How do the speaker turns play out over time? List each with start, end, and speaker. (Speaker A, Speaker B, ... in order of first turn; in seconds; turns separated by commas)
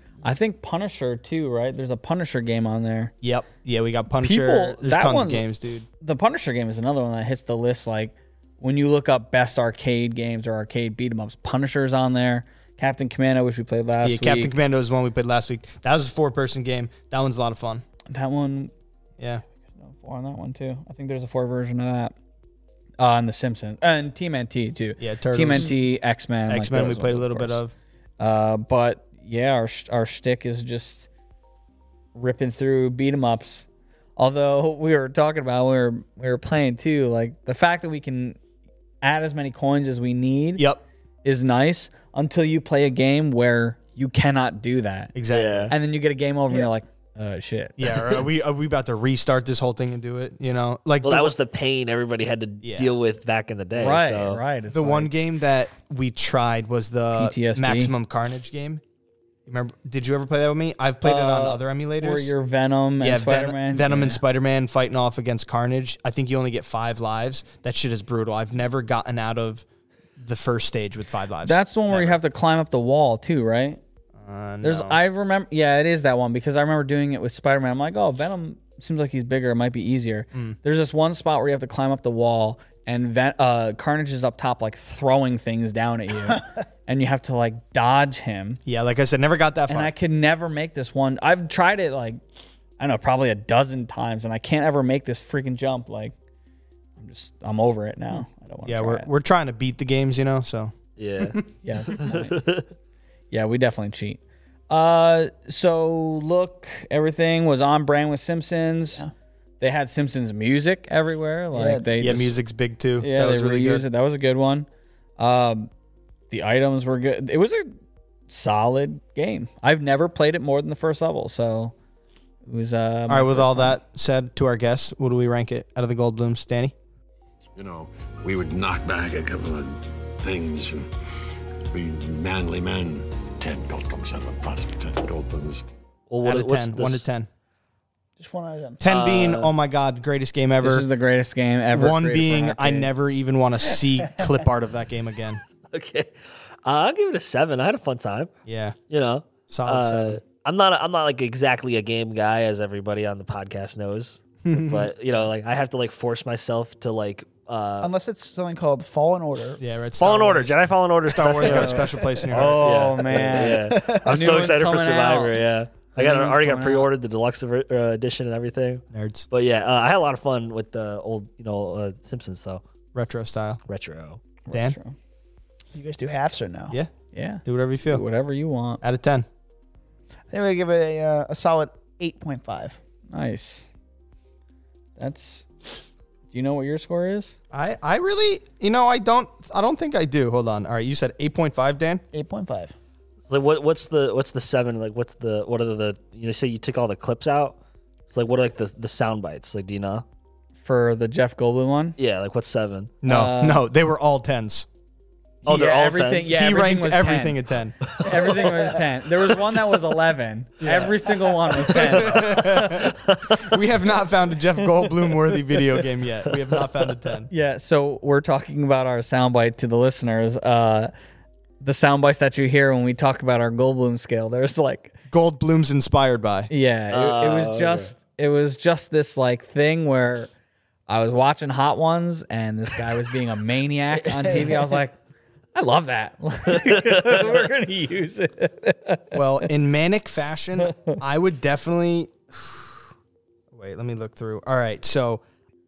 Speaker A: 0.2-3.1, Speaker B: 3.2-5.8, Speaker A: 4.2-5.5, Speaker A: 6.0-14.5, Speaker B: 14.0-17.8, Speaker A: 18.1-18.7, Speaker A: 19.7-22.1, Speaker A: 23.0-27.6, Speaker B: 25.0-25.8, Speaker B: 26.5-27.7, Speaker A: 28.2-31.1, Speaker A: 32.1-38.4, Speaker A: 39.0-40.6, Speaker B: 40.6-40.8, Speaker A: 41.2-45.1, Speaker B: 45.1-45.7, Speaker C: 45.3-45.7, Speaker A: 45.7-47.8, Speaker B: 47.8-51.4, Speaker C: 51.0-54.4, Speaker B: 52.6-52.9, Speaker A: 53.7-55.1, Speaker B: 54.7-58.8, Speaker A: 57.1-57.9, Speaker B: 59.5-62.3, Speaker A: 61.0-64.2, Speaker B: 63.0-69.6, Speaker B: 70.2-72.2, Speaker A: 71.4-73.8, Speaker B: 74.2-75.0, Speaker A: 74.6-88.6, Speaker B: 88.7-89.9, Speaker A: 89.7-92.2, Speaker A: 92.8-96.1, Speaker A: 97.0-99.1, Speaker B: 98.7-101.4, Speaker C: 101.0-101.4, Speaker A: 101.6-102.4, Speaker C: 101.9-102.7, Speaker A: 103.3-109.0, Speaker A: 109.6-112.3, Speaker D: 111.5-111.8, Speaker B: 112.0-113.8, Speaker A: 113.0-114.7, Speaker A: 115.2-115.7, Speaker A: 116.3-117.7, Speaker A: 118.3-121.7, Speaker A: 122.4-123.8, Speaker B: 123.1-126.7, Speaker E: 127.5-130.9, Speaker E: 131.7-135.6, Speaker C: 136.1-137.1, Speaker B: 136.2-137.3, Speaker D: 138.2-138.8, Speaker B: 138.8-140.8, Speaker C: 138.8-139.5, Speaker A: 140.6-142.9, Speaker B: 141.7-145.4, Speaker C: 145.7-146.1, Speaker C: 146.6-148.3, Speaker B: 148.4-148.8, Speaker C: 148.9-157.9, Speaker B: 149.5-150.2, Speaker B: 154.4-154.9, Speaker D: 157.8-159.6, Speaker B: 159.6-162.9, Speaker C: 160.0-172.6, Speaker A: 161.4-165.4, Speaker D: 161.6-162.2, Speaker D: 163.1-164.1, Speaker A: 165.9-166.9, Speaker B: 168.9-169.3, Speaker B: 172.9-173.6, Speaker C: 173.7-174.2, Speaker A: 174.5-174.9, Speaker B: 174.5-174.8, Speaker D: 175.7-176.8, Speaker A: 177.1-178.8, Speaker B: 177.4-178.0, Speaker B: 178.8-179.2, Speaker D: 180.3-182.8, Speaker A: 183.1-183.7, Speaker A: 185.0-185.5, Speaker A: 186.3-187.3, Speaker B: 187.5-192.0, Speaker D: 192.1-192.7, Speaker C: 193.3-197.6, Speaker C: 198.1-200.0, Speaker A: 200.6-201.9, Speaker C: 202.0-203.0, Speaker B: 203.0-204.7, Speaker A: 203.0-203.6, Speaker C: 205.4-206.3, Speaker A: 205.4-207.4, Speaker B: 206.3-207.9, Speaker C: 207.8-208.7, Speaker A: 207.9-212.6, Speaker D: 208.4-208.7, Speaker C: 209.3-209.6, Speaker B: 210.6-211.0, Speaker C: 211.6-213.6, Speaker B: 211.6-217.3, Speaker C: 216.2-216.7, Speaker A: 217.3-220.9, Speaker A: 221.6-224.9, Speaker B: 225.1-226.5, Speaker A: 226.5-230.3, Speaker C: 226.9-227.9, Speaker A: 230.9-235.0, Speaker D: 234.0-234.7, Speaker A: 235.5-239.2, Speaker C: 236.6-237.3, Speaker B: 239.1-242.9, Speaker A: 240.6-240.9, Speaker B: 243.5-245.2